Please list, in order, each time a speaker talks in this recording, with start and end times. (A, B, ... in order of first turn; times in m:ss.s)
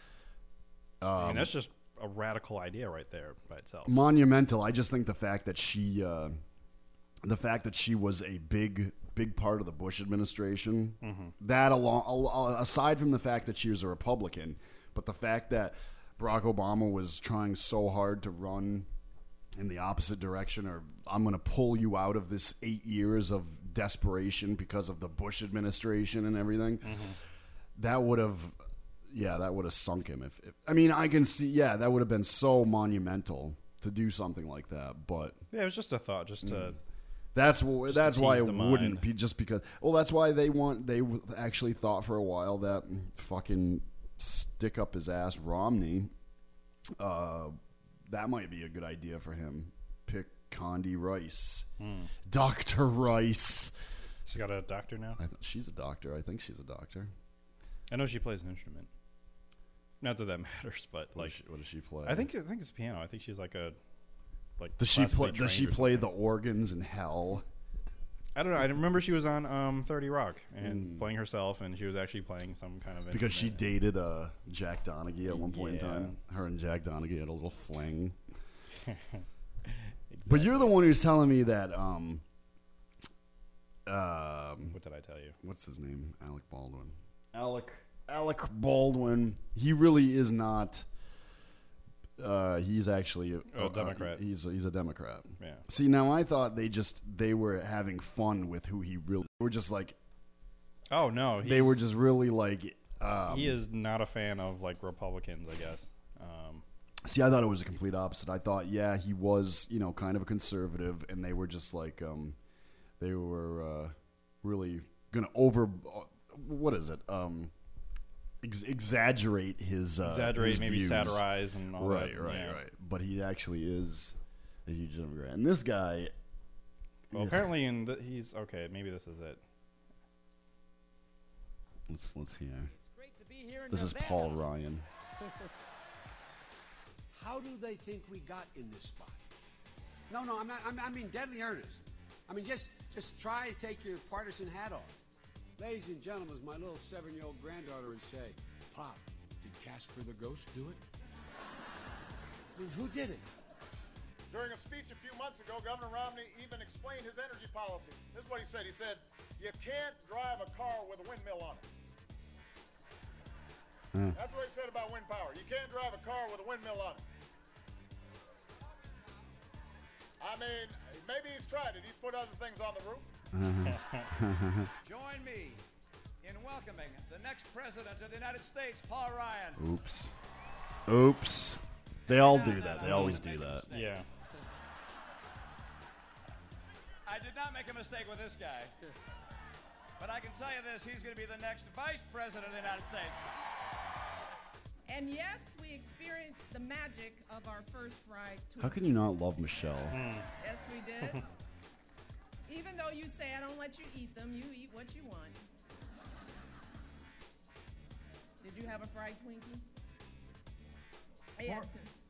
0:01.0-0:01.5 A
0:01.2-0:03.9 B
0:03.8-0:06.4 A
0:07.2-0:18.9 A
0:11.0-0:11.3 B
0:19.6-0:27.1 A
0:26.8-0:27.2 B
0:27.8-0:28.6 A
0:29.1-0:35.4 A
0:35.5-0:36.8 B
0:36.4-0:36.8 A
0:37.3-0:46.1 A
0:37.9-0:39.0 B
0:47.0-0:51.7 A
0:51.8-0:52.1 B
0:52.2-0:53.7 A
0:54.2-0:55.2 B
0:55.2-0:57.1 A
0:57.9-0:58.9 B
1:00.0-1:01.4 B
1:01.1-1:02.3 A
1:02.0-1:03.8 B
1:04.6-1:06.1 B
1:04.8-1:07.4 A
1:08.3-1:13.6 B
1:10.6-1:11.0 A
1:13.1-1:18.2 A
1:15.3-1:16.2 B
1:18.8-1:20.8 B
1:20.3-1:22.2 A
1:23.8-1:24.8 A
1:24.7-1:25.4 B
1:25.4-1:30.9 A
1:32.2-1:40.0 A
1:33.5-1:34.2 B
1:35.4-1:35.6 B
1:40.9-1:41.8 B
1:41.4-1:43.6 A
1:43.3-1:46.6 B
1:47.0-1:52.4 A
1:53.0-1:57.5 A
1:58.4-2:06.1 A
2:00.0-2:02.6 B
2:07.1-2:07.5 A
2:07.1-2:09.4 B
2:11.9-2:12.7 A
2:12.8-2:14.4 C
2:13.7-2:14.8 A
2:17.1-2:19.2 D
2:20.1-2:25.0 D
2:25.6-2:30.8 D
2:32.5-2:33.2 D
2:34.3-2:41.6 E
2:44.1-2:47.0 E
2:50.2-2:53.0 E
2:53.3-2:54.7 A
2:53.6-2:54.1 B
2:54.8-2:55.6 C
2:56.2-2:59.6 C
2:59.6-3:00.1 A
3:00.8-3:03.7 A
3:02.1-3:04.0 C
3:02.8-3:03.2 B
3:03.7-3:04.0 B
3:07.0-3:08.7 C
3:10.0-3:13.3 C
3:14.9-3:19.0 F
3:18.6-3:20.0 A
3:19.9-3:20.3 B
3:20.4-3:21.2 F
3:22.5-3:25.4 F
3:28.4-3:29.6 F
3:31.4-3:31.9 F